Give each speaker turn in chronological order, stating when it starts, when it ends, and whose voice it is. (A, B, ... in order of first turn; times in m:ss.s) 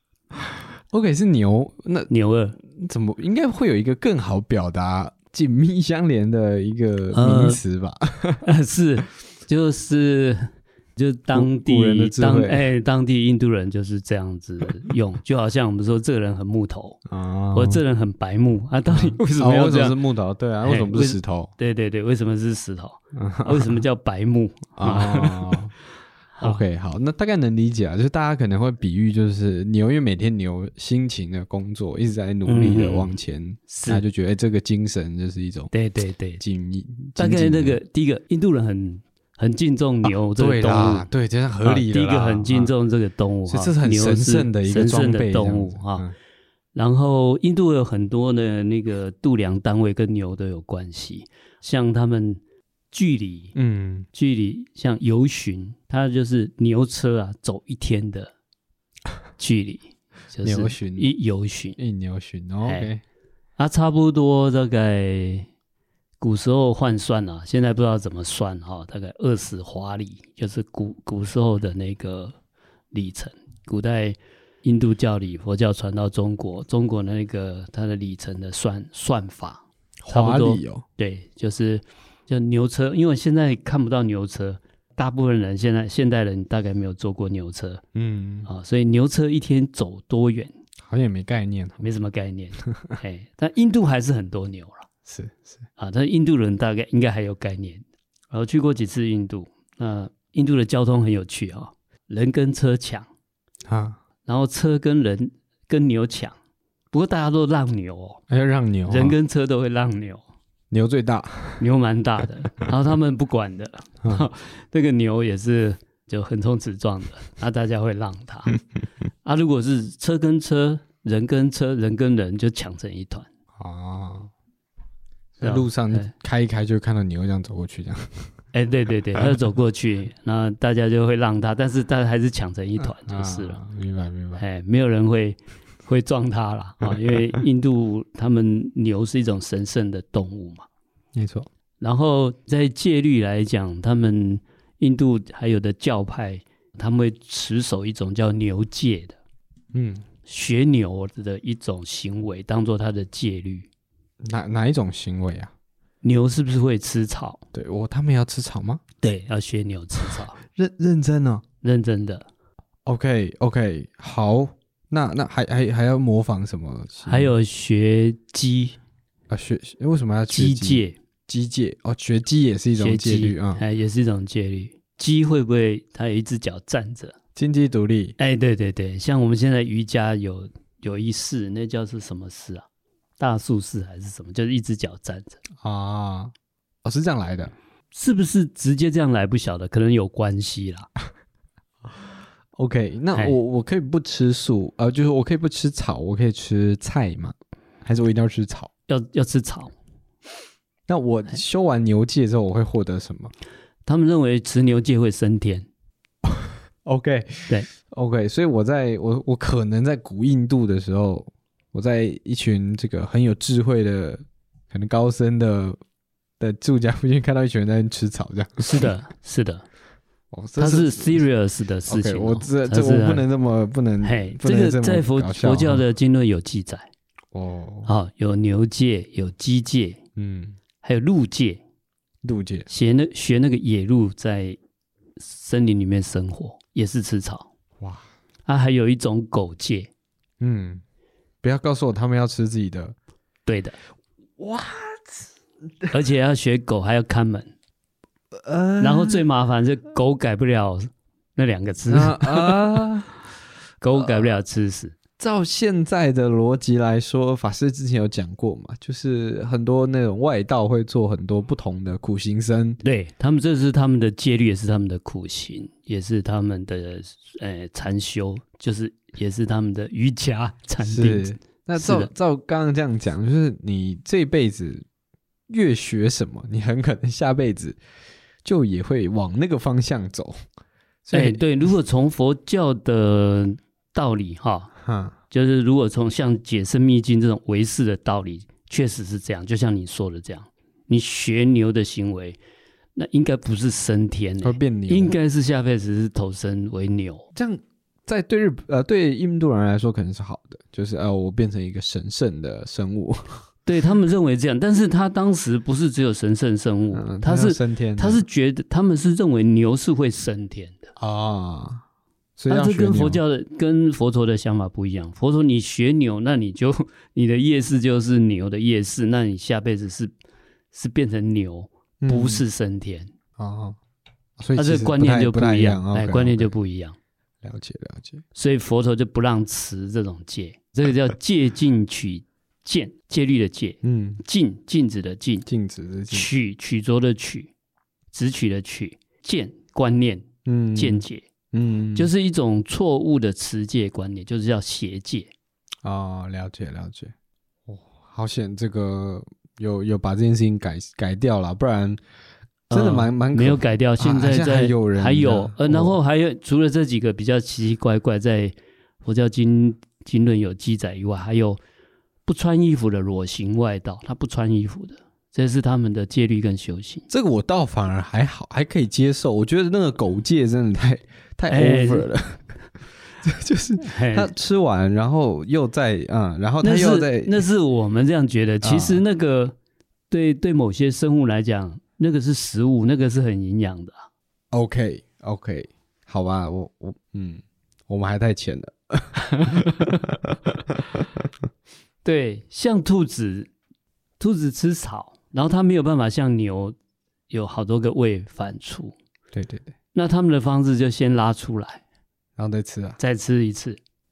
0:00.3-0:02.1 A
0:02.1-0:02.6 B
0:02.6-0:08.4 A
0:07.1-0:07.6 B
0:08.4-0:17.0 B
0:11.3-0:12.7 A
0:17.1-0:17.8 A
0:17.5-0:20.0 B
0:18.9-0:21.5 A
0:20.6-0:25.6 B
0:23.1-0:23.8 A
0:24.8-0:25.7 A
0:26.4-0:26.6 B
0:26.4-0:35.7 A
0:32.4-0:33.2 B
0:33.7-0:34.0 B
0:35.7-0:36.4 B
0:36.4-0:37.8 A
0:37.2-0:41.1 B
0:40.0-0:42.7 A
0:41.6-0:46.0 B
0:43.5-0:46.1 A
0:46.7-0:52.4 B
0:52.9-0:53.5 B
0:53.5-0:54.1 A
0:54.1-0:58.3 B
0:59.4-1:01.8 B
1:00.4-1:01.1 A
1:01.8-1:03.0 A
1:03.6-1:05.5 B
1:06.2-1:12.3 B
1:12.9-1:27.8 B
1:20.0-1:20.8 A
1:27.9-1:28.5 A
1:28.4-1:30.5 B
1:30.8-1:31.9 A
1:31.8-1:34.9 B
1:35.0-1:35.6 A
1:35.8-1:43.1 B
1:43.7-1:44.0 A
1:44.2-1:46.3 B
1:46.9-1:48.2 B
1:48.3-1:49.2 A
1:48.9-1:50.2 B
1:50.7-1:51.6 A
1:51.6-1:58.6 B
1:59.2-2:03.3 B
2:03.6-2:04.3 A
2:05.4-2:08.3 A
2:05.4-2:06.1 B
2:08.5-2:13.6 B
2:12.8-2:14.4 A
2:14.4-2:20.6 B
2:21.1-2:21.5 A
2:21.8-2:29.2 B
2:29.7-2:30.0 A
2:30.2-2:33.7 B
2:34.2-2:35.5 A
2:36.0-2:37.4 B
2:37.5-2:38.8 A
2:39.0-2:40.4 B
2:40.1-2:41.4 A
2:41.6-2:42.3 B
2:42.8-2:47.3 A
2:47.0-2:48.8 B
2:49.3-2:53.6 A
2:50.3-2:51.0 B
2:52.8-2:57.2 B
2:57.4-2:58.2 A
2:58.2-3:02.6 B
3:03.2-3:05.4 B
3:05.6-3:06.3 A
3:06.8-3:07.5 A
3:07.9-3:10.9 B
3:12.5-3:18.7 A
3:18.9-3:19.7 B
3:20.9-3:23.3 A
3:23.8-3:25.7 B
3:26.2-3:35.8 A
3:36.4-3:38.9 A
3:38.6-3:39.6 B
3:40.3-3:41.2 A
3:40.6-3:43.2 B
3:41.9-3:45.8 A
3:44.0-3:46.9 B
3:47.3-3:47.9 A
3:47.8-3:50.0 B
3:50.2-3:50.6 A
3:50.8-3:51.6 B
3:52.2-3:52.7 A
3:52.7-3:54.6 B
3:55.2-3:57.5 B
3:58.4-3:59.9 B
4:00.4-4:00.8 A
4:01.4-4:02.9 A
4:03.4-4:03.8 B
4:04.4-4:05.2 A
4:05.9-4:07.5 B
4:08.3-4:09.2 A
4:08.8-4:12.8 B
4:11.9-4:13.1 A
4:13.8-4:15.0 B
4:13.9-4:14.3 A
4:15.2-4:22.8 A
4:22.8-4:32.1 B
4:30.8-4:34.8 A
4:35.5-4:37.8 A
4:38.4-4:40.4 A
4:41.0-4:41.4 A
4:41.1-4:44.7 B
4:44.8-4:45.1 A
4:45.3-4:52.4 B
4:53.0-4:57.3 B
4:54.4-4:55.2 A
4:57.3-5:03.4 A
5:03.6-5:10.9 B
5:06.9-5:08.2 A
5:11.0-5:11.8 A
5:12.4-5:13.2 A
5:12.5-5:20.1 B
5:20.7-5:23.1 B
5:22.0-5:22.4 A
5:23.4-5:23.8 A
5:24.4-5:26.5 A
5:24.6-5:27.0 B
5:27.4-5:28.2 A
5:28.3-5:35.5 B
5:33.8-5:34.2 A
5:35.4-5:36.3 A
5:36.1-5:37.5 B
5:38.1-5:41.3 B
5:40.4-5:42.1 A
5:41.9-5:45.3 B
5:45.8-5:47.1 A
5:47.7-5:52.0 A
5:52.7-5:56.0 A
5:52.7-6:01.6 B
6:02.2-6:07.1 B
6:07.1-6:12.4 A
6:11.5-6:12.1 B
6:13.2-6:17.4 A
6:13.8-6:14.3 B
6:16.6-6:19.5 B
6:18.6-6:19.0 A
6:20.1-6:24.0 B
6:24.5-6:31.0 A
6:29.2-6:30.0 B
6:32.0-6:33.5 B
6:34.2-6:36.7 B
6:37.3-6:39.0 B
6:39.3-6:39.7 A
6:39.9-6:41.8 B
6:42.4-6:43.0 A
6:43.0-6:43.8 B